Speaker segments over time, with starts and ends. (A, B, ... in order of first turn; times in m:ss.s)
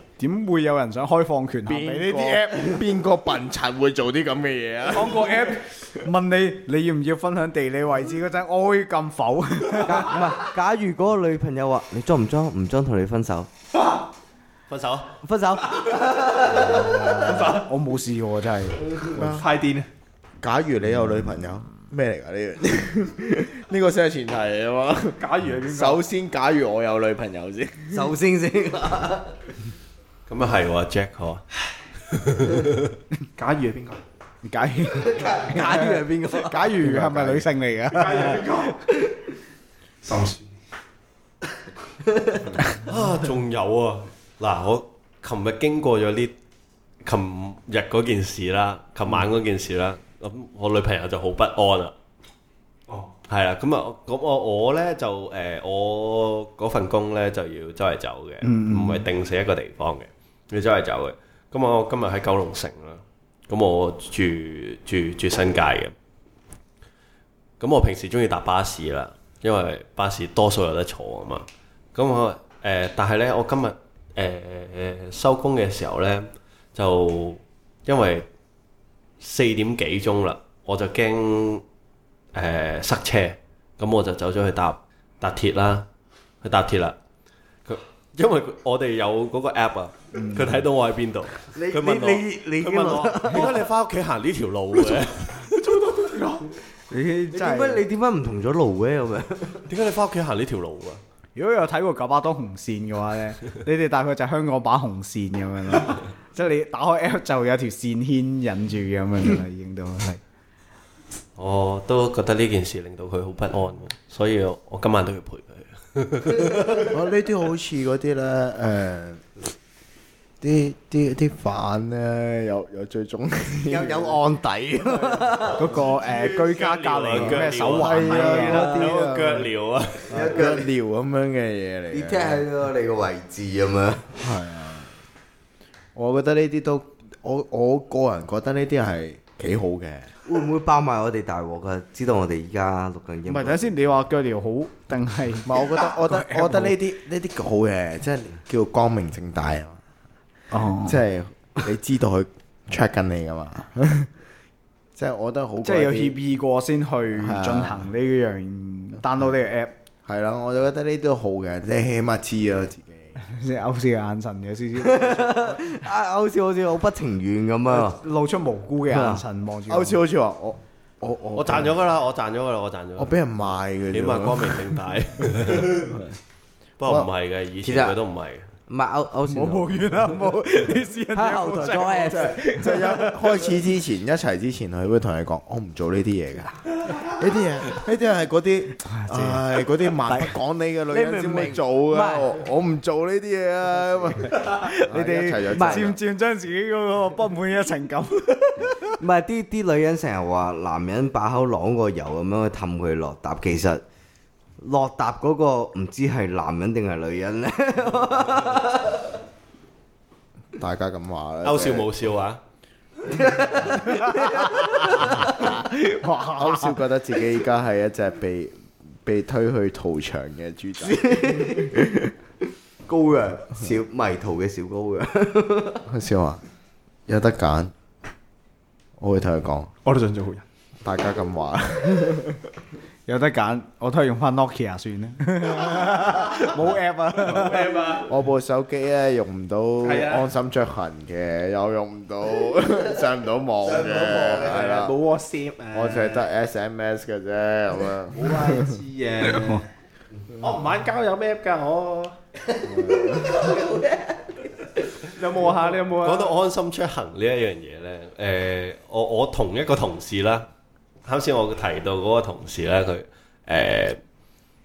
0:00.2-0:02.8 A
0:01.6-0:05.3 B
0:04.9-0:10.4 A
0:09.8-0:13.5 C
0:14.7-0:15.1 D
0:15.2-0:17.6 C
0:17.2-0:17.7 E
0:17.4-0:18.9 A
0:19.1-0:19.5 B
0:19.2-0:19.9 E
0:20.4-0:28.1 B
0:25.2-0:26.0 E
0:27.9-0:29.3 C
0:30.3-0:31.4 D
0:32.1-0:32.9 D
0:33.4-0:34.0 E
0:34.4-0:38.7 A
0:35.0-0:37.5 C
0:37.9-0:38.8 E
0:40.0-0:40.5 E
0:42.7-0:46.3 D
0:47.0-0:51.9 D
0:53.3-1:05.9 D
0:58.4-0:59.0 A
1:07.6-1:18.3 D
1:19.2-1:21.6 D
1:22.3-1:25.9 D
1:26.4-1:27.0 D
1:27.6-1:35.6 D
1:30.1-1:30.6 A
1:31.5-1:33.6 C
1:35.4-1:36.5 E
1:36.9-1:37.8 A
1:37.3-1:39.7 C
1:39.7-1:41.0 D
1:41.3-1:50.2 A
1:51.4-1:56.9 D
1:56.8-1:59.2 B
2:00.4-2:04.2 B
2:03.7-2:05.7 C
2:04.9-2:05.2 B
2:05.6-2:08.9 A
2:05.8-2:10.1 D
2:07.2-2:09.5 B
2:10.1-2:10.7 C
2:10.1-2:12.4 B
2:11.9-2:14.1 C
2:14.2-2:14.9 B
2:15.9-2:20.1 B
2:20.2-2:23.7 C
2:23.3-2:26.8 A
2:25.4-2:29.8 B
2:30.5-2:31.0 A
2:30.8-2:34.1 B
2:34.9-2:36.2 B
2:35.6-2:39.7 A
2:37.1-2:37.9 B
2:40.0-2:43.2 B
2:43.2-2:45.7 A
2:44.7-2:48.0 C
2:47.7-2:50.0 A
2:48.9-2:51.8 B
2:48.9-2:49.2 C
2:51.4-2:53.2 D
2:53.0-2:54.8 B
2:53.9-2:55.9 D
2:56.8-2:58.5 D
2:57.6-2:58.0 C
2:58.7-2:59.9 C
2:59.3-3:03.5 A
3:01.1-3:02.4 C
3:02.1-3:16.0 B
3:08.8-3:09.4 A
3:10.1-3:10.3 A
3:10.9-3:12.3 C
3:14.5-3:18.9 A
3:15.5-3:15.9 C
3:19.0-3:23.8 C
3:24.6-3:29.1 C
3:30.5-3:31.9 B
3:31.4-3:32.4 D
3:33.0-3:35.2 C
3:34.2-3:36.8 A
3:36.3-3:42.1 B
3:40.8-3:41.8 C
3:42.9-3:45.8 C
3:45.9-3:46.4 B
3:47.1-3:47.7 B
3:49.0-3:49.7 B
3:49.8-3:50.4 E
3:50.8-3:52.4 B
3:53.1-3:57.8 A
3:57.2-3:58.1 E
3:58.0-4:04.9 B
3:59.8-4:00.3 E
4:03.7-4:06.2 E
4:05.7-4:08.8 B
4:08.1-4:09.6 E
4:10.4-4:12.1 E
4:12.7-4:13.4 B
4:12.7-4:14.4 C
4:15.1-4:16.4 E
4:15.9-4:20.5 D
4:21.0-4:24.0 D